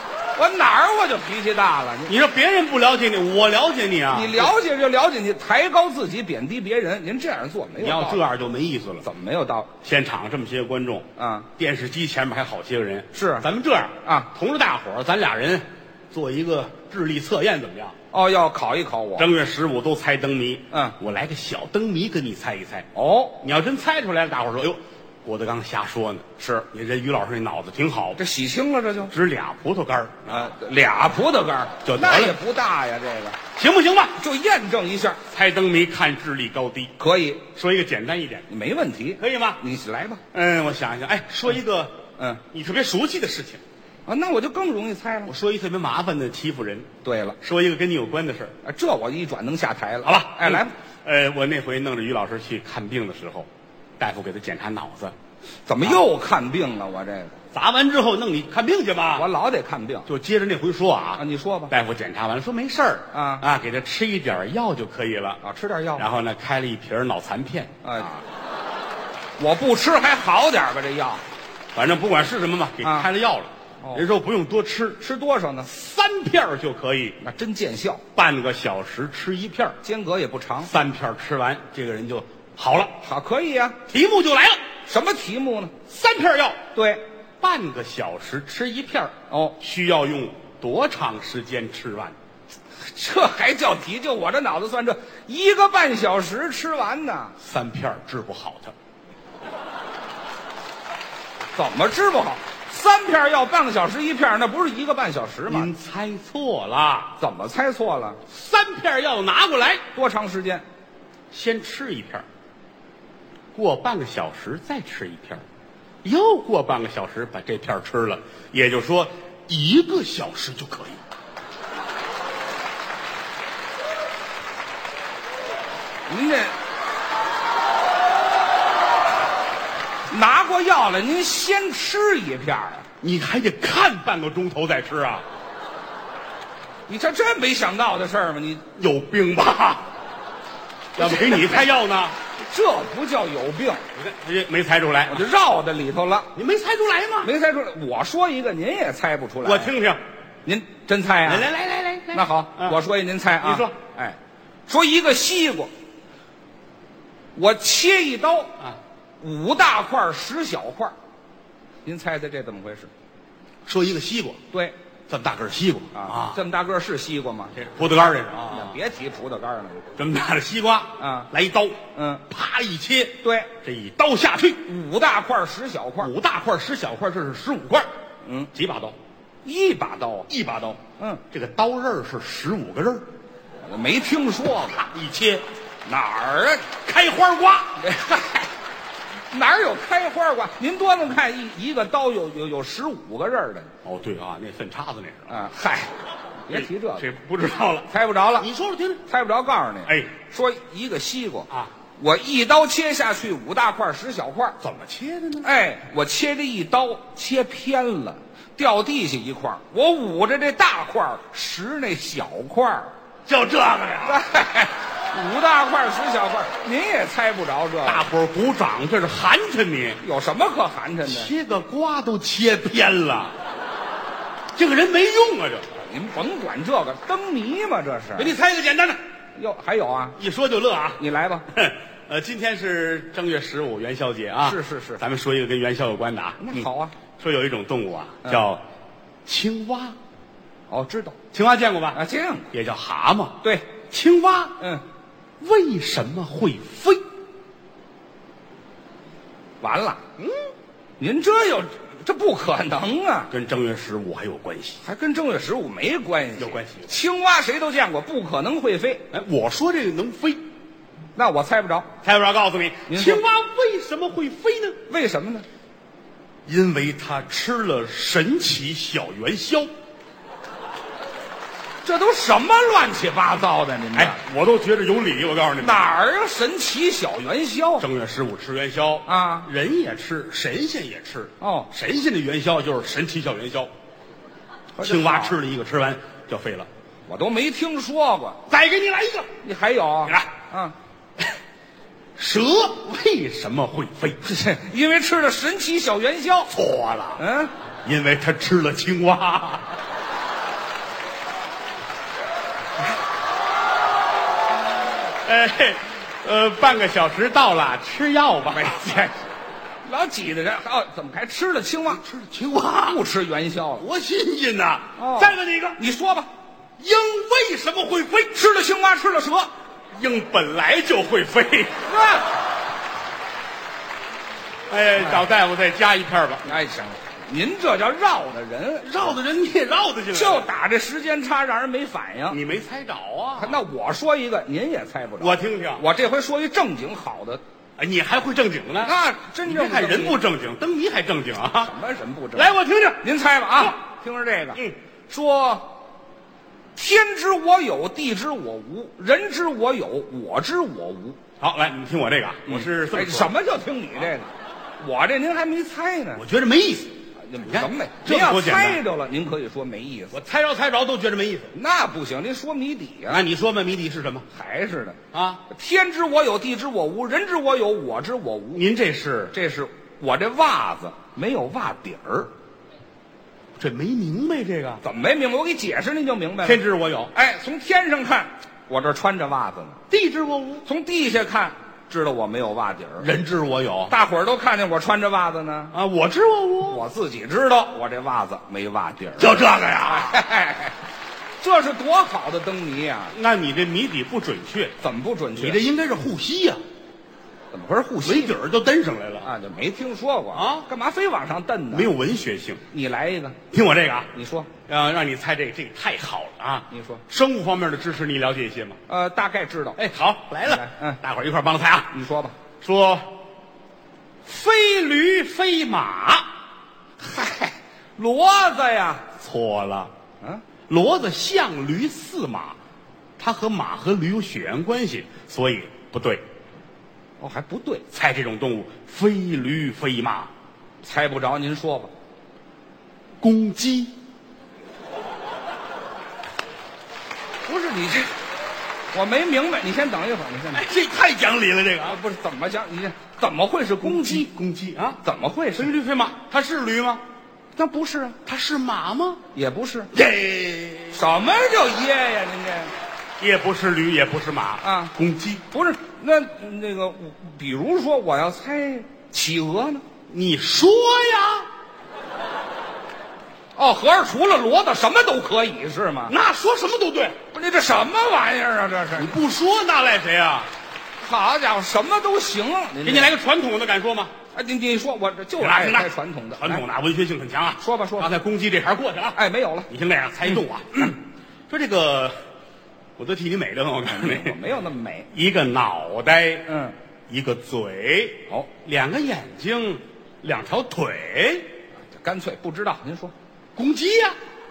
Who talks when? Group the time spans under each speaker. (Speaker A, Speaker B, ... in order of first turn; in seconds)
Speaker A: 0.3-2.1, 4.1-8.2, 9.0-9.7, 11.2-11.5, 13.1-13.5, 18.1-19.3, 20.7-21.0, 22.9-23.4, 26.4-26.6, 28.2-29.1, 30.3-33.4, 34.2-35.2, 37.0-37.5, 38.5-40.2, 44.1-45.3, 47.0-47.4, 48.6-50.7, 55.7-57.4, 59.1-60.1, 61.1-61.7, 63.1-63.4, 65.4-66.1, 67.8-68.2, 69.4-71.2, 72.8-73.1, 73.8-74.1, 75.0-75.7, 77.2-78.0, 79.8-80.7, 83.0-83.8, 84.9-85.8, 86.8-87.0, 89.3-89.6, 92.9-97.3, 101.5-105.7, 107.2-108.2, 109.9-110.6, 126.1-126.5, 130.1-132.8, 136.9-138.7, 141.0-141.7, 142.4-143.8, 145.1-146.3, 147.2-149.7, 150.4-151.5, 152.1-155.7, 157.3-158.6, 159.2-160.9, 161.8-162.9, 165.9-167.6, 168.5-169.9, 171.0-171.3, 171.9-172.2, 173.2-173.5, 174.6-176.1, 178.2-178.5, 179.4-180.3, 183.6-184.8, 185.8-186.7, 187.8-188.5, 189.3-193.7, 195.3-195.9, 196.4-197.1, 197.9-198.5, 199.1-204.6, 205.4-212.9, 214.1-218.1, 220.0-221.3, 225.8-228.3, 229.4-230.2, 231.0-231.5, 234.4-235.0, 236.4-237.0, 240.7-241.2, 241.9-242.5, 243.4-243.7, 249.6-250.0, 251.0-253.3, 254.8-259.1, 261.2-261.9, 262.9-263.2, 264.9-265.5, 271.8-274.2, 275.6-277.9, 279.1-279.5, 281.4-281.7, 284.8-285.4, 287.1-288.4, 289.4-290.8, 294.2-296.5, 297.2-297.5, 308.5-309.2, 309.8-312.0, 312.8-313.9, 315.0-316.3, 318.3-319.5, 321.9-322.3, 325.0-325.2, 326.4-329.2, 330.1-332.4, 333.4-337.4, 338.8-340.2, 341.6-345.8, 346.8-351.2, 352.5-356.2, 357.2-360.2, 361.5-363.2, 364.3-365.0, 365.5-368.6, 369.3-372.3, 374.8-379.8, 380.6-383.1, 383.9-385.8, 386.7-390.8, 391.4-393.1, 394.8-395.6, 397.5-398.4, 399.2-401.9, 402.7-403.4, 404.1-404.5, 406.7-407.0, 408.9-409.8, 410.4-411.0, 411.9-412.4, 417.0-419.1, 427.2-427.9, 430.8-431.9, 437.4-438.1, 438.9-440.7, 441.8-444.3, 445.0-445.7, 447.6-448.2, 449.3-449.9, 450.9-452.7, 454.6-454.9, 455.5-459.8, 463.6-466.1, 467.3-469.2, 471.0-473.1, 474.3-476.6, 477.6-478.1, 479.1-479.7, 483.9-485.1, 486.5-486.8, 491.9-493.1
Speaker B: 2.1-4.5, 7.8-9.1, 9.8-17.9, 19.2-22.9, 23.4-28.2, 29.1-30.5, 31.8-32.4, 33.6-34.2, 35.3-36.9, 37.5-38.5, 39.2-39.6, 40.3-42.0, 42.5-43.6, 45.3-46.9, 47.4-48.5, 50.0-53.5, 54.0-55.1, 57.5-59.3, 60.1-65.4, 66.0-68.1, 71.8-75.0, 75.7-77.2, 78.2-79.8, 80.6-83.0, 83.9-84.6, 85.9-86.6, 87.4-92.2, 97.4-98.7, 105.5-107.2, 108.3-109.8, 111.3-112.2, 113.5-115.4, 116.0-121.0, 133.0-135.2, 138.8-139.8, 141.0-142.2, 143.9-145.3, 146.4-147.3, 149.4-150.0, 151.2-152.8, 153.4-153.7, 163.7-164.4, 165.1-166.4, 167.6-168.8, 170.0-174.6, 176.0-177.9, 178.5-179.0, 180.3-183.1, 184.8-185.4, 186.8-187.8, 193.8-195.4, 196.5-199.0, 199.9-200.1, 204.6-205.5, 213.3-214.2, 217.8-220.0, 221.1-223.3, 224.6-225.7, 228.2-229.0, 230.2-236.7, 237.2-238.6, 239.2-240.0, 241.3-242.0, 242.5-244.6, 245.4-247.0, 253.3-254.8, 256.4-256.9, 259.1-260.4, 262.0-264.8, 266.5-269.7, 273.9-275.9, 277.8-283.7, 284.8-286.7, 288.5-289.3, 292.2-294.2, 296.5-297.2, 297.9-299.8, 305.2-308.8, 311.9-313.0, 313.8-315.8, 316.8-318.4, 319.9-321.8, 324.7-326.5, 328.8-330.5, 332.3-333.6, 335.2-335.8, 337.8-341.7, 342.4-343.0, 351.4-353.4, 356.2-358.8, 360.1-361.6, 363.1-364.3, 365.1-365.4, 368.6-369.3, 373.6-374.8, 376.4-377.1, 379.9-380.6, 383.0-383.9, 385.7-386.9, 389.2-390.2, 393.1-394.8, 395.4-396.6, 398.0-399.3, 400.3-400.7, 401.7-402.6, 403.5-404.1, 404.7-408.8, 409.8-411.9, 412.6-413.1, 414.3-416.3, 419.2-419.9, 420.7-422.6, 423.2-426.2, 427.9-430.3, 433.2-433.9, 440.5-442.0, 443.8-445.0, 445.6-447.0, 448.3-449.2, 449.9-451.1, 453.2-455.4, 460.1-461.5, 466.1-467.2, 468.9-470.5, 472.8-474.1, 475.4-482.1, 483.0-484.4, 485.1-486.5, 487.1-491.5, 493.6-494.1